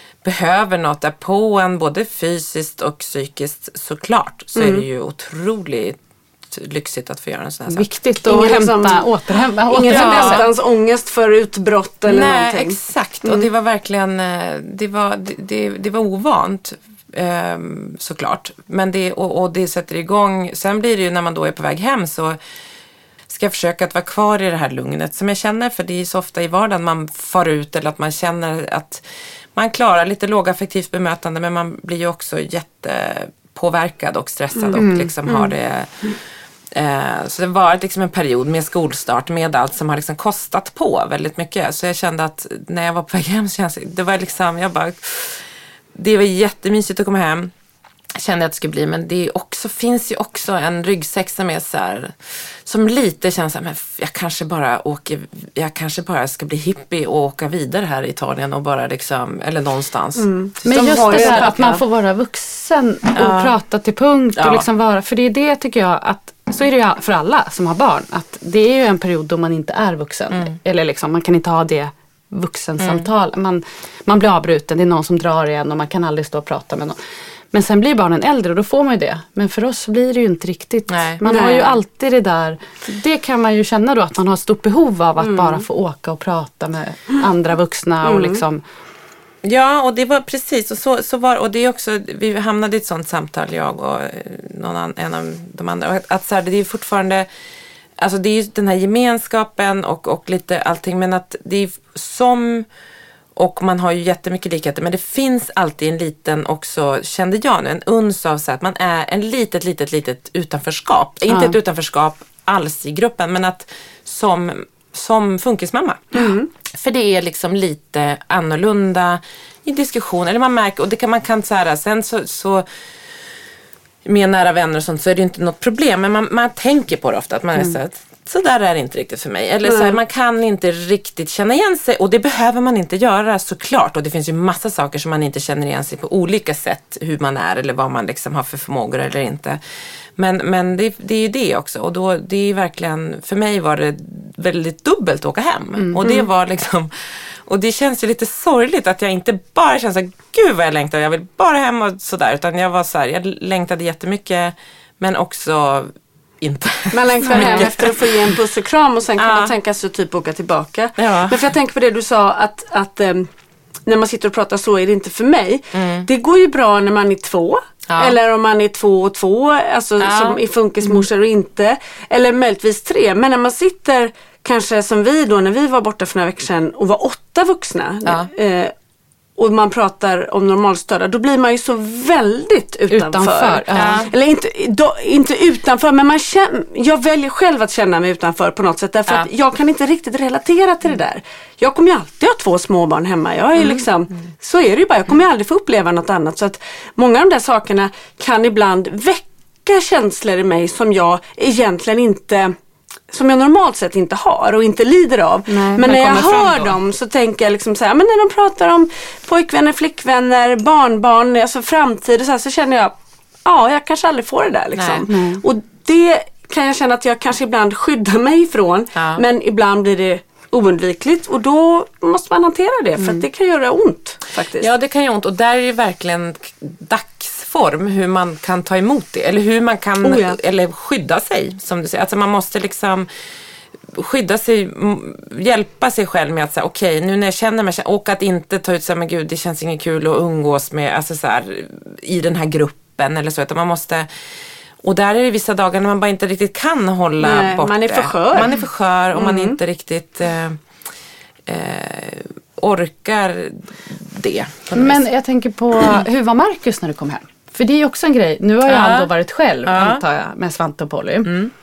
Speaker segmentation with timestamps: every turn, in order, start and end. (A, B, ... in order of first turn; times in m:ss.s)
0:00.2-0:06.0 A
0:04.6-0:04.9 B
0:06.5-0:07.9 A
0:07.7-0:10.5 C
0:08.2-0:09.1 B
0:09.7-0:13.5 B
0:09.9-0:10.5 A
0:12.1-0:22.4 A
0:23.3-0:29.0 A
0:29.6-0:35.9 A
0:34.6-0:35.5 B
0:34.8-0:35.1 C
0:36.7-0:45.4 A
0:46.0-0:47.5 A
0:48.2-0:52.1 A
0:52.6-1:01.5 A
1:00.2-1:01.8 B
1:00.6-1:17.0 C
1:03.2-1:03.5 A
1:04.4-1:04.6 A
1:12.8-1:13.1 A
1:17.5-1:28.6 C
1:20.9-1:21.2 A
1:21.2-1:21.7 B
1:25.2-1:25.6 B
1:28.0-1:28.4 B
1:29.4-1:37.3 A
1:38.0-1:42.7 A
1:43.4-1:56.2 A
1:56.1-1:56.5 B
1:56.7-2:02.7 A
2:04.0-2:19.6 A
2:09.6-2:10.0 B
2:20.2-2:38.4 A
2:25.8-2:26.0 C
2:36.9-2:43.3 B
2:37.3-2:37.7 C
2:39.2-2:39.5 A
2:41.0-2:41.5 A
2:43.9-2:58.7 B
2:45.8-2:46.1 A
2:47.9-2:48.2 A
2:50.0-2:51.0 A
2:58.0-2:58.3 A
2:59.4-3:22.6 B
3:02.9-3:04.0 C
3:03.8-3:04.1 A
3:13.6-3:13.8 A
3:23.1-3:32.9 B
3:25.5-3:25.9 C
3:25.8-3:26.8 A
3:33.4-3:44.7 B
3:34.8-3:35.1 A
3:35.1-3:35.4 C
3:39.0-3:39.2 A
3:44.6-3:53.1 A
3:50.0-3:50.4 B
3:53.9-4:04.1 A
4:04.8-4:10.6 A
4:07.2-4:08.6 B
4:09.1-4:09.6 B
4:11.5-4:15.0 A
4:14.7-4:21.3 C
4:18.7-4:19.1 A
4:19.6-4:20.0 A
4:21.2-4:21.5 A